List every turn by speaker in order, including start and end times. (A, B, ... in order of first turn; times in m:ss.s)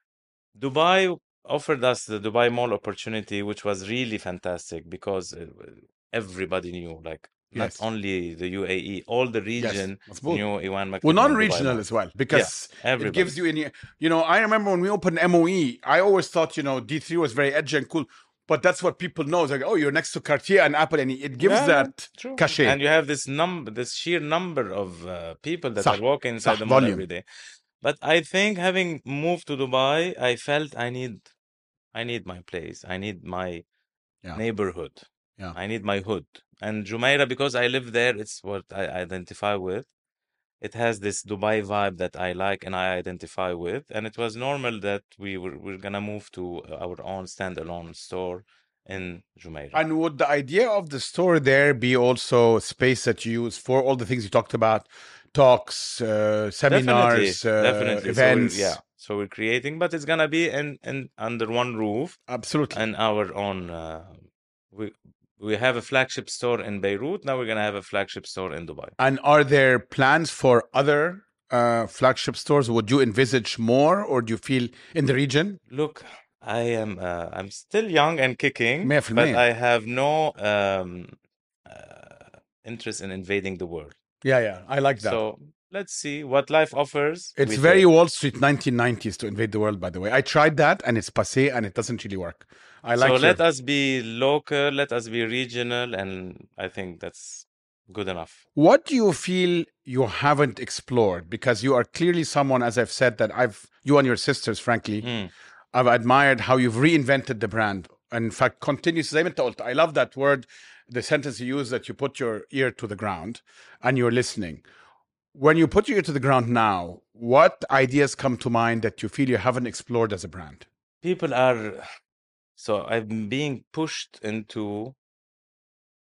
0:00.6-0:13.4 A
0:07.5-0:07.8 B
0:09.6-0:10.4 B
0:11.0-0:22.8 B
0:21.4-0:27.2 A
0:25.8-0:27.0 B
0:27.8-0:31.3 A
0:31.9-0:33.6 A
0:34.3-0:39.9 A
0:40.6-0:49.8 A
0:49.7-0:58.8 B
0:56.7-1:02.2 A
1:02.3-1:02.8 B
1:02.7-1:09.0 A
1:09.0-1:15.6 B
1:15.7-1:24.0 A
1:18.8-1:19.4 B
1:24.2-1:25.2 B
1:25.0-1:27.9 A
1:27.4-1:33.4 B
1:33.0-1:38.4 A
1:38.6-1:45.1 B
1:45.0-1:45.3 A
1:45.7-1:54.6 B
1:55.3-2:00.7 B
2:01.0-2:01.8 A
2:02.6-2:05.0 A